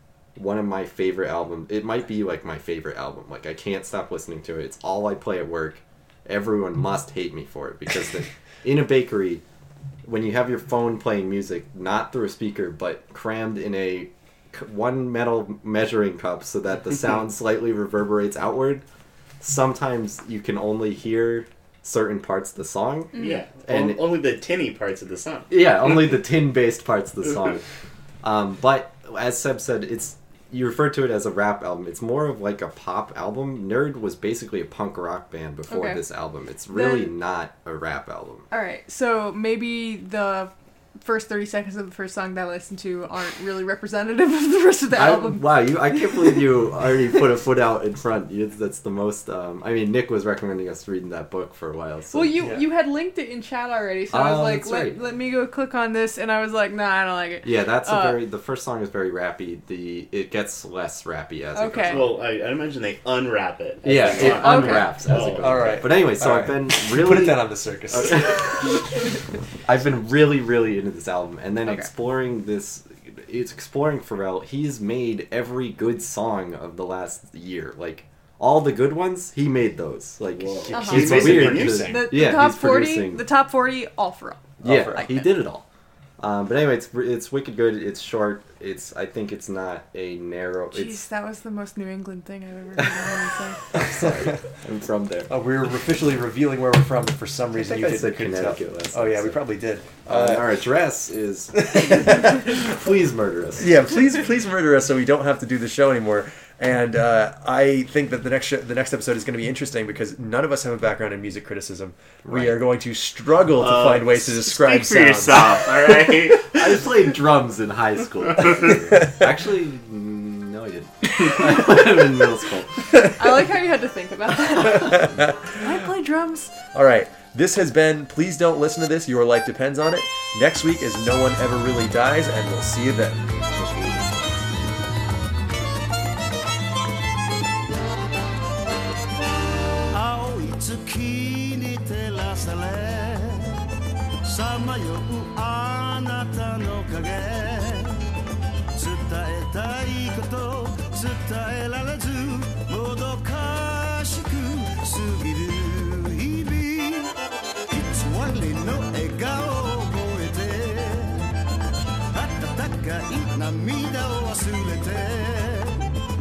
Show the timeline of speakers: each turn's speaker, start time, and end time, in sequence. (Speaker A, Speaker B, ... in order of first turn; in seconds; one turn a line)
Speaker A: 0.3-9.4
Speaker A: 10.0-18.8
Speaker A: 19.4-23.1
Speaker B: 23.1-23.4
Speaker C: 23.1-25.6
Speaker A: 23.6-24.2
Speaker A: 25.5-27.6
Speaker A: 28.2-38.5
Speaker B: 35.7-36.0
Speaker B: 36.7-37.1
Speaker B: 38.5-46.7
Speaker A: 44.9-52.4
Speaker B: 52.1-58.2
Speaker D: 52.4-52.6
Speaker A: 54.1-55.0
Speaker A: 57.4-62.1
Speaker B: 61.5-62.1
Speaker C: 61.8-65.6
Speaker A: 63.8-68.8
Speaker B: 64.2-65.0
Speaker D: 65.4-68.6
Speaker A: 69.6-83.2
Speaker C: 80.4-82.2
Speaker D: 80.7-81.8
Speaker B: 80.7-81.2
Speaker B: 81.8-85.4
Speaker A: 84.6-85.6
Speaker A: 86.2-91.0
Speaker B: 90.7-93.8
Speaker A: 92.8-93.1
Speaker A: 93.7-95.3
Speaker D: 95.3-100.5
Speaker A: 97.5-99.4
Speaker A: 100.0-103.8
Speaker D: 101.6-102.4
Speaker D: 103.6-115.7
Speaker A: 112.2-112.6
Speaker C: 113.6-116.6
Speaker A: 116.5-122.9
Speaker B: 123.2-126.5
Speaker D: 124.8-125.4
Speaker D: 126.7-133.3
Speaker E: 139.9-143.6
Speaker E: 144.2-148.1
Speaker E: 148.7-157.1
Speaker E: 157.7-161.3
Speaker E: 162.1-165.9